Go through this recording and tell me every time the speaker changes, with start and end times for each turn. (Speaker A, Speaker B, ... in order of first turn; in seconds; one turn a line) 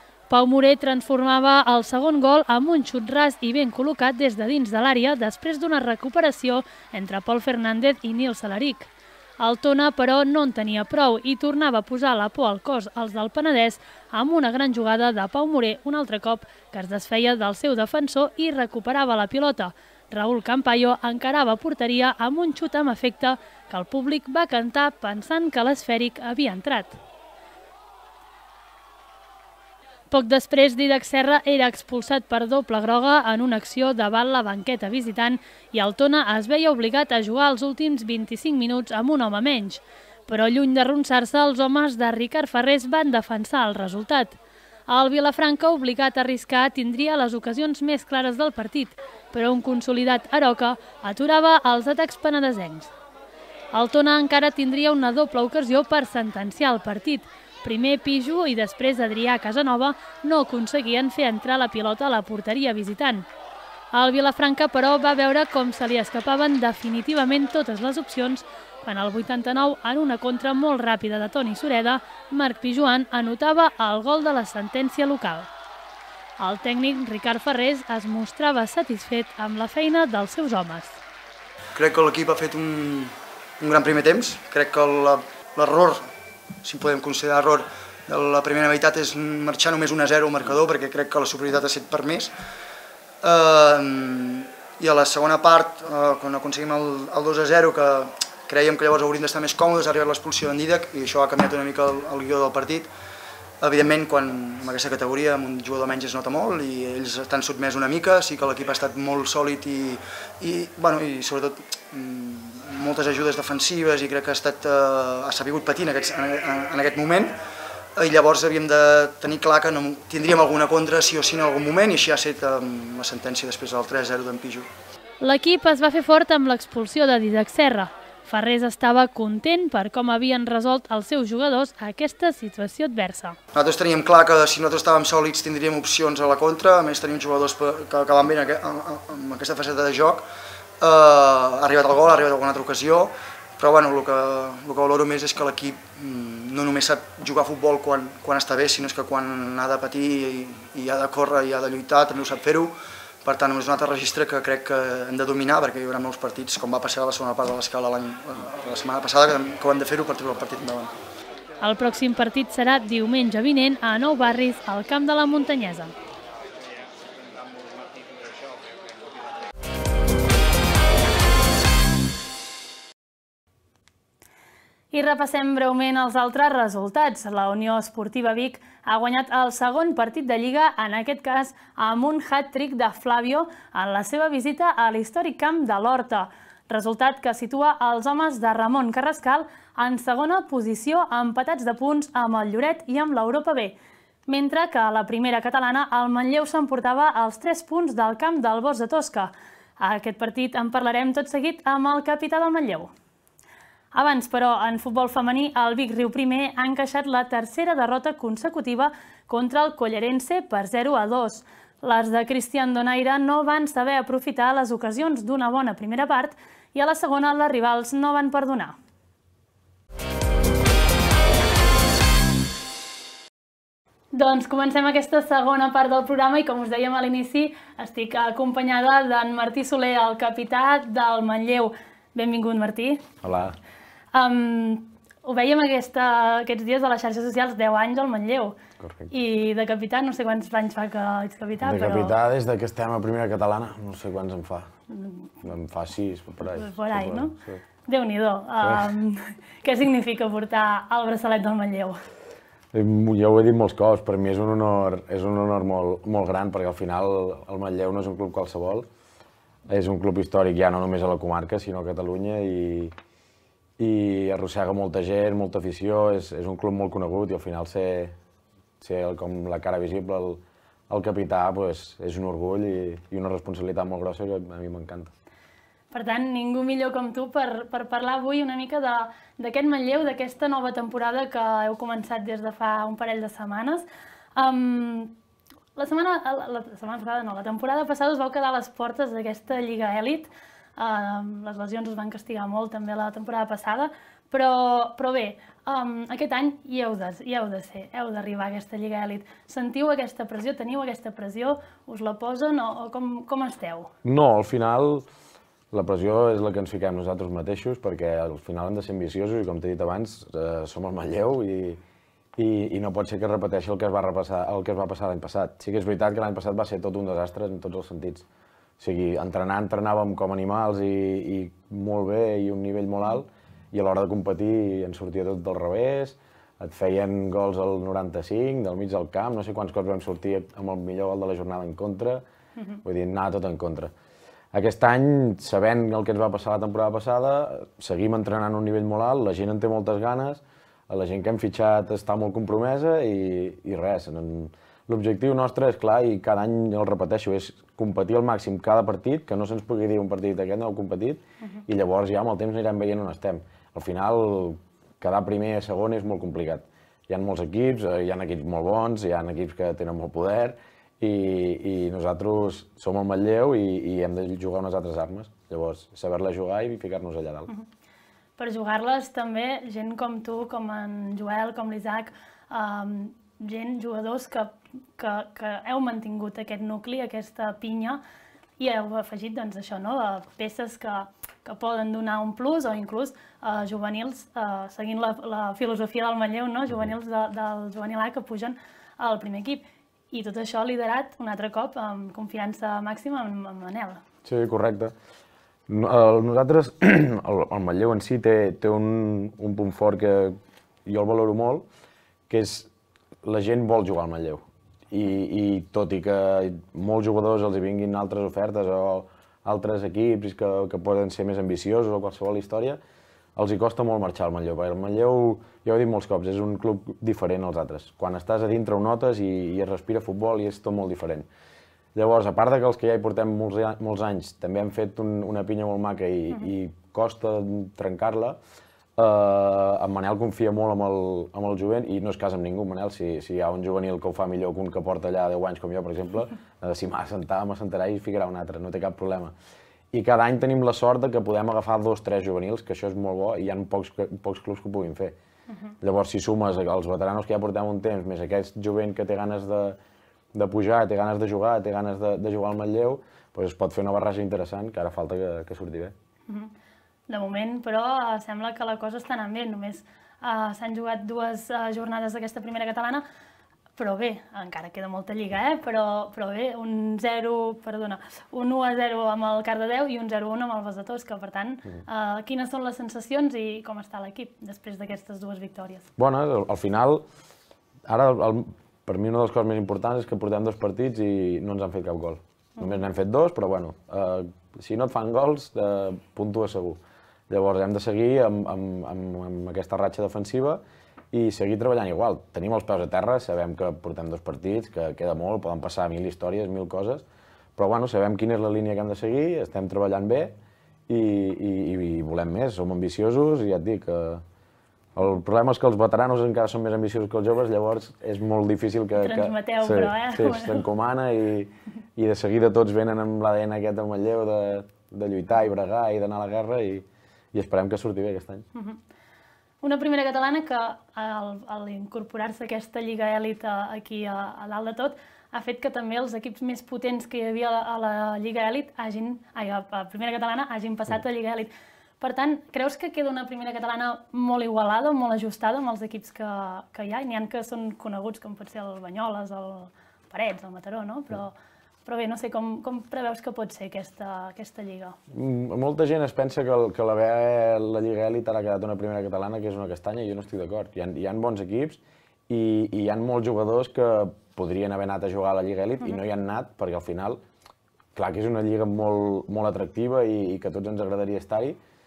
Speaker A: 0.3-27.0
Speaker A: 30.1-44.4
Speaker A: 44.9-52.9
Speaker A: 53.7-63.3
Speaker A: 63.9-75.5
Speaker A: 76.4-81.0
Speaker B: 81.8-86.1
Speaker B: 86.6-92.3
Speaker B: 93.2-102.9
Speaker B: 103.6-117.4
Speaker B: 118.0-124.7
Speaker A: 125.2-133.4
Speaker B: 133.5-140.2
Speaker B: 140.8-160.9
Speaker A: 161.6-165.9
Speaker A: 174.9-193.8
Speaker A: 194.3-202.9
Speaker A: 203.9-218.8
Speaker A: 224.1-233.0
Speaker C: 233.2-233.6
Speaker A: 234.1-238.6
Speaker C: 238.8-239.1
Speaker A: 239.1-242.1
Speaker C: 241.6-244.7
Speaker A: 244.9-245.3
Speaker C: 245.4-247.6
Speaker A: 246.5-252.0
Speaker C: 248.6-248.9
Speaker C: 252.7-258.9
Speaker C: 259.7-262.9
Speaker C: 263.8-268.1
Speaker C: 268.8-275.1
Speaker A: 275.9-283.9
Speaker A: 284.4-285.1
Speaker A: 285.8-303.9
Speaker C: 304.0-305.1
Speaker C: 305.7-311.8
Speaker C: 312.4-318.3
Speaker C: 318.8-332.2
Speaker C: 332.8-333.9
Speaker C: 334.5-367.5
Speaker A: 368.4-378.0
Speaker A: 378.6-394.0
Speaker C: 394.2-394.9
Speaker C: 395.7-401.6
Speaker C: 402.3-402.7
Speaker C: 403.2-412.8
Speaker C: 413.4-421.3
Speaker C: 421.9-428.4
Speaker C: 429.0-439.3
Speaker C: 439.9-445.1
Speaker C: 445.8-449.8
Speaker C: 450.3-455.9
Speaker A: 456.3-456.5
Speaker A: 457.1-463.0
Speaker A: 463.8-475.9
Speaker C: 476.0-477.1
Speaker C: 477.9-500.4
Speaker C: 500.9-504.2
Speaker C: 504.9-518.4
Speaker A: 509.0-510.6
Speaker A: 518.5-518.8
Speaker A: 519.6-531.5
Speaker A: 532.0-541.4
Speaker A: 541.9-545.0
Speaker C: 545.1-557.2
Speaker C: 557.9-561.6